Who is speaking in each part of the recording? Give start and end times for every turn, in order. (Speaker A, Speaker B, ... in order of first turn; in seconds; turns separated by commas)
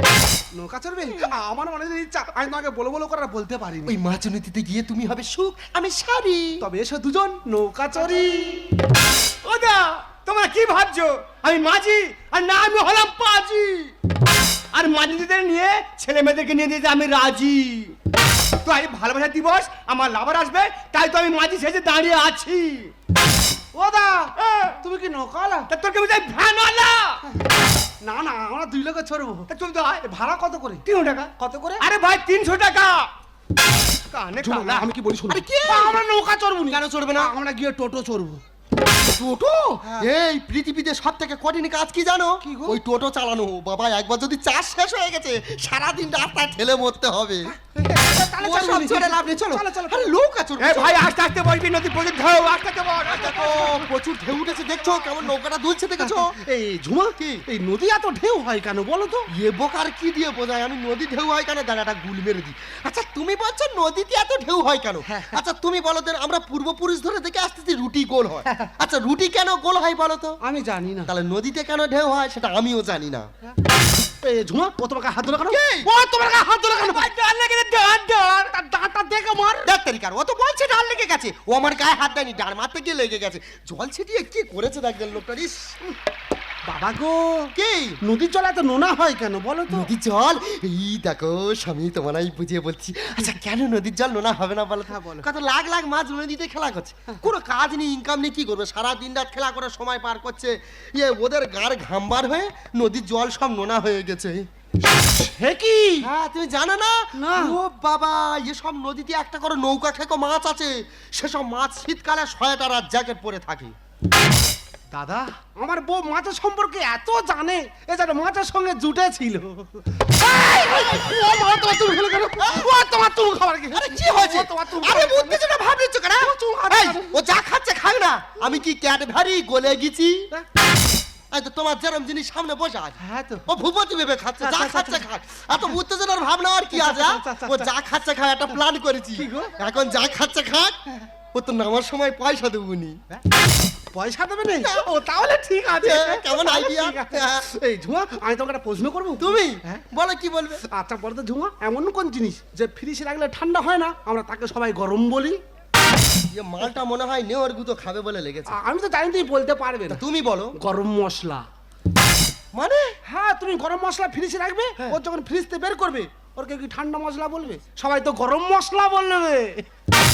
Speaker A: 0.5-4.0, Speaker B: 3.9-6.6, Speaker A: 6.6-8.6, Speaker C: 9.4-13.9, Speaker C: 14.7-17.9, Speaker C: 18.6-22.9, Speaker A: 23.7-25.7, Speaker C: 24.4-24.8, Speaker C: 25.7-27.2, Speaker A: 28.0-29.5, Speaker C: 29.5-30.0, Speaker A: 30.0-30.8, Speaker C: 30.8-33.1, Speaker A: 31.4-31.8, Speaker C: 34.1-34.9, Speaker A: 34.4-38.4, Speaker B: 35.3-36.0, Speaker B: 36.7-37.3, Speaker B: 39.1-47.5, Speaker A: 39.8-40.1, Speaker A: 42.4-42.8, Speaker A: 47.7-50.1, Speaker B: 48.3-51.0, Speaker C: 50.6-53.7, Speaker B: 53.1-56.4, Speaker A: 56.0-59.3, Speaker B: 57.2-57.4, Speaker B: 59.3-70.4, Speaker A: 65.0-65.4, Speaker A: 68.5-68.7, Speaker A: 70.4-71.1, Speaker B: 71.0-73.3, Speaker A: 74.2-77.1, Speaker B: 75.5-75.9, Speaker C: 76.7-78.5, Speaker A: 78.5-79.7, Speaker B: 79.6-85.8, Speaker A: 86.7-89.9, Speaker B: 87.5-88.0, Speaker B: 89.7-104.5, Speaker A: 94.9-95.2, Speaker A: 104.9-106.1, Speaker B: 106.0-113.7, Speaker A: 107.2-107.5, Speaker A: 114.9-125.4, Speaker B: 123.7-130.3, Speaker A: 126.2-127.1, Speaker B: 131.3-140.8, Speaker A: 133.0-133.5, Speaker A: 134.4-135.1, Speaker A: 136.7-137.7, Speaker A: 139.2-139.5, Speaker B: 141.3-143.0, Speaker A: 143.9-149.8, Speaker B: 144.6-144.9, Speaker B: 145.8-147.5, Speaker B: 149.2-150.7, Speaker A: 150.7-155.4, Speaker B: 156.3-158.6, Speaker A: 158.5-160.0, Speaker B: 159.9-160.6, Speaker A: 160.6-161.5, Speaker B: 162.5-162.9, Speaker A: 163.1-169.6